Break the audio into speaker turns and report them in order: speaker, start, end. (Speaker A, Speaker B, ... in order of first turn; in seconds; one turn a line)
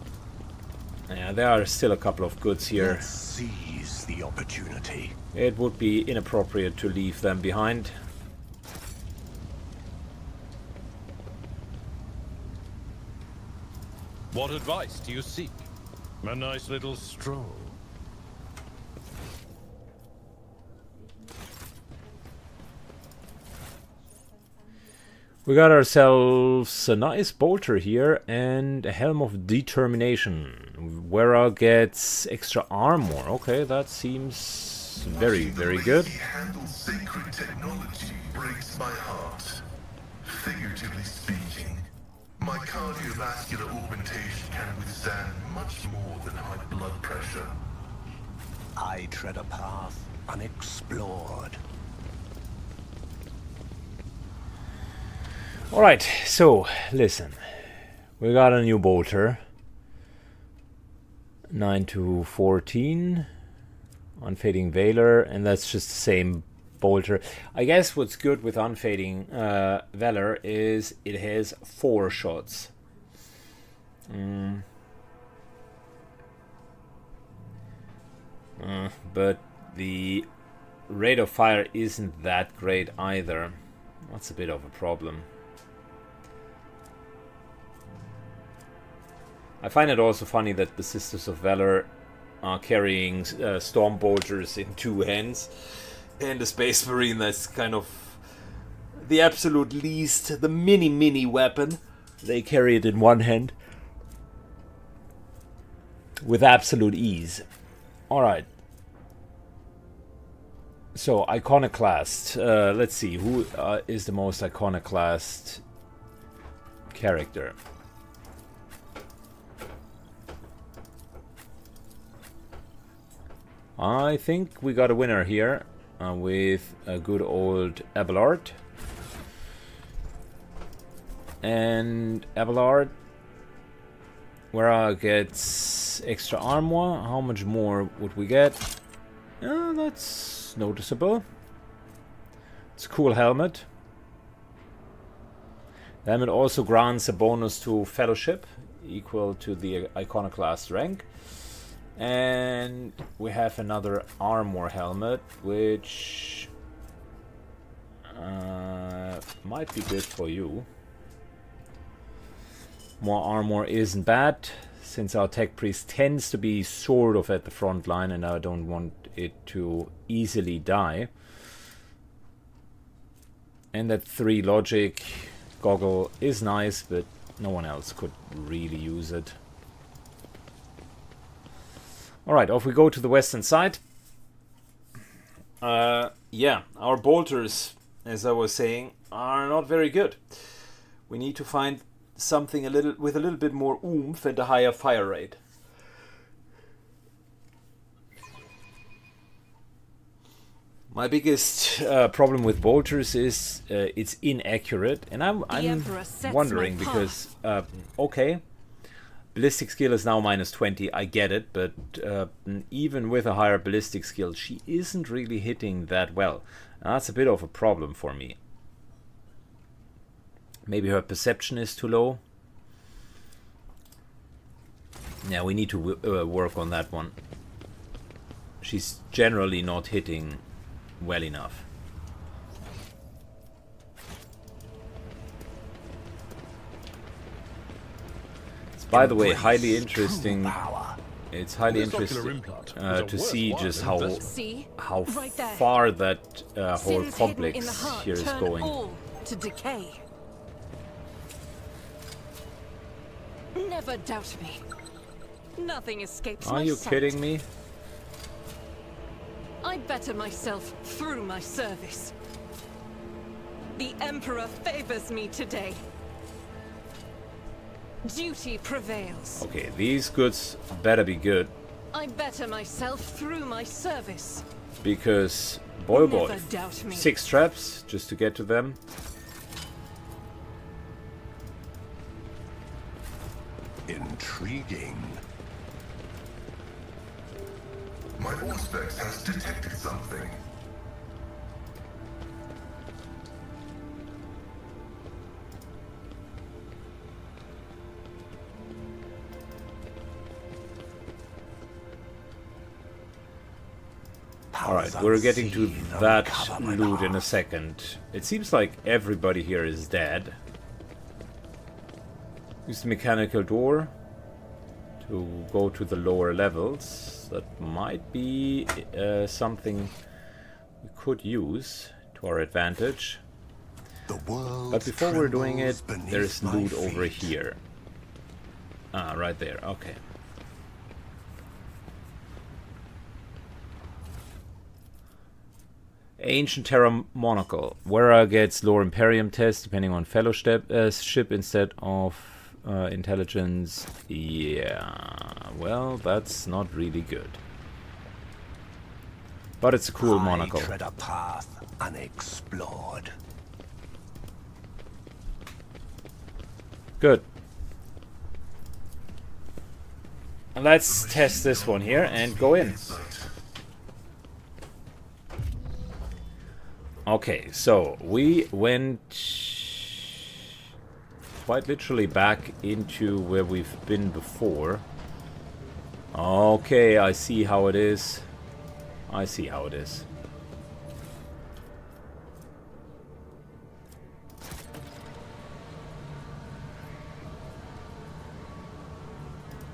Speaker A: 1.1-3.1
Speaker B: 2.7-5.2
Speaker A: 5.3-8.0
Speaker C: 14.3-15.6
Speaker C: 16.2-17.7
Speaker A: 25.4-36.1
Speaker D: 35.1-39.6
Speaker D: 40.3-47.6
Speaker B: 48.8-51.6
Speaker A: 55.7-57.6
Speaker A: 58.2-59.4
Speaker A: 61.5-63.3
Speaker A: 64.2-72.7
Speaker A: 74.1-74.6
Speaker A: 78.6-80.3
Speaker A: 80.9-85.3
Speaker A: 89.6-91.9
Speaker A: 92.4-98.2
Speaker A: 99.0-103.5
Speaker A: 106.2-107.4
Speaker A: 108.1-108.5
Speaker A: 110.9-115.6
Speaker A: 116.9-117.6
Speaker A: 123.8-128.6
Speaker A: 131.4-132.9
Speaker A: 134.5-138.7
Speaker A: 139.4-141.2
Speaker A: 142.8-143.7
Speaker A: 146.0-151.1
Speaker A: 151.9-156.5
Speaker A: 158.1-160.7
Speaker A: 163.0-171.1
Speaker A: 173.7-179.3
Speaker A: 182.2-183.8
Speaker A: 185.6-195.4
Speaker A: 200.9-208.4
Speaker E: 205.5-207.2
Speaker A: 209.3-218.4
Speaker A: 220.7-222.2
Speaker A: 225.2-227.1
Speaker A: 228.6-230.4
Speaker A: 231.0-231.7
Speaker A: 238.8-240.6
Speaker B: 238.9-241.0
Speaker A: 241.3-248.7
Speaker C: 241.7-244.3
Speaker E: 244.2-245.8
Speaker E: 246.7-250.0
Speaker E: 253.5-254.6
Speaker E: 255.6-257.1
Speaker A: 256.4-257.4
Speaker E: 259.6-262.1
Speaker E: 263.7-265.8
Speaker E: 268.0-269.4
Speaker A: 269.4-271.5
Speaker E: 271.9-274.4
Speaker A: 274.8-278.8
Speaker E: 275.9-277.1
Speaker B: 283.9-285.2
Speaker D: 288.2-290.4
Speaker B: 304.5-307.4
Speaker A: 304.6-310.4
Speaker A: 312.6-313.9
Speaker A: 315.0-319.9
Speaker A: 320.8-323.2
Speaker B: 324.1-327.4
Speaker A: 324.7-327.6
Speaker A: 328.9-330.0
Speaker A: 336.2-347.4
Speaker A: 349.6-350.7
Speaker B: 350.0-353.1
Speaker A: 357.0-357.2
Speaker A: 360.5-362.8
Speaker D: 360.8-363.3
Speaker A: 367.1-370.2
Speaker A: 371.4-374.8
Speaker A: 376.1-378.2
Speaker A: 379.1-380.1